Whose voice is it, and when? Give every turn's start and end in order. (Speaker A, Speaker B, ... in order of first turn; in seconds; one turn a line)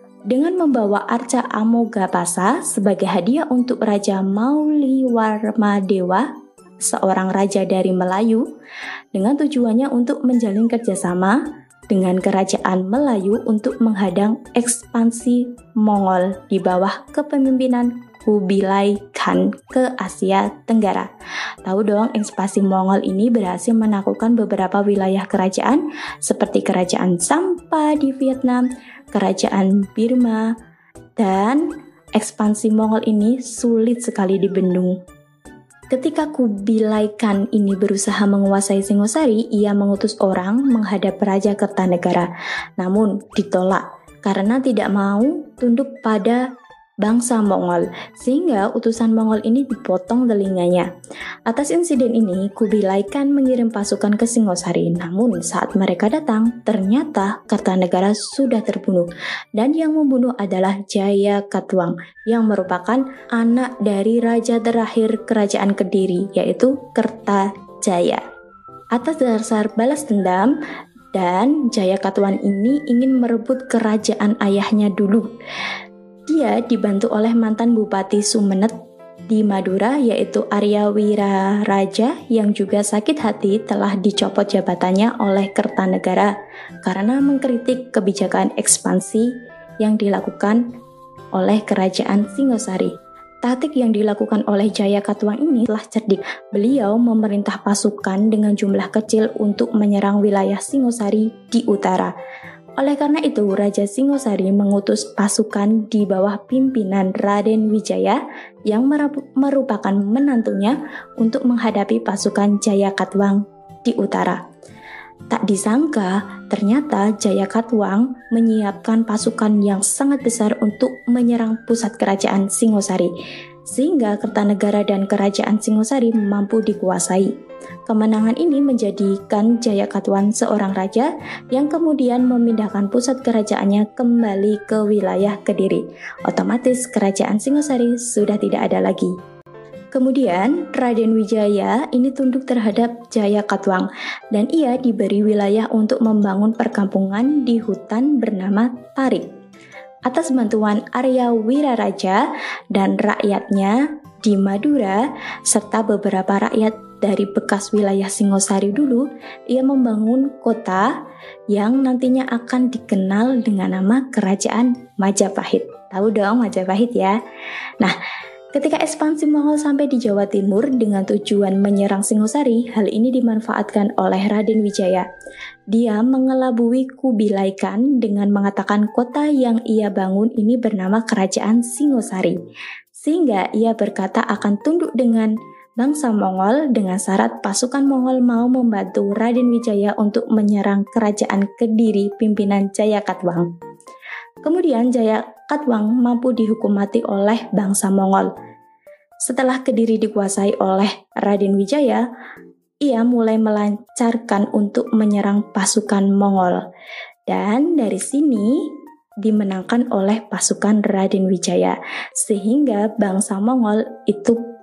Speaker A: 0.3-6.3
Speaker A: 6.8-8.4
Speaker A: 9.1-21.1
Speaker A: 21.6-30.5
Speaker A: 31.2-35.0
Speaker A: 35.9-46.4
Speaker A: 47.0-50.9
Speaker A: 51.5-68.2
Speaker A: 68.9-70.5
Speaker A: 71.1-75.3
Speaker A: 76.3-78.7
Speaker A: 79.3-86.3
Speaker A: 86.8-90.6
Speaker A: 91.3-102.1
Speaker A: 102.8-114.4
Speaker A: 115.3-123.1
Speaker A: 123.7-127.3
Speaker A: 127.9-139.1
Speaker A: 139.9-149.2
Speaker A: 150.1-152.2
Speaker A: 152.7-160.9
Speaker A: 161.5-167.1
Speaker A: 168.5-175.1
Speaker A: 175.7-182.4
Speaker A: 182.9-193.5
Speaker A: 194.4-198.3
Speaker A: 199.2-202.0
Speaker A: 202.8-206.6
Speaker A: 207.3-208.7
Speaker A: 209.2-214.4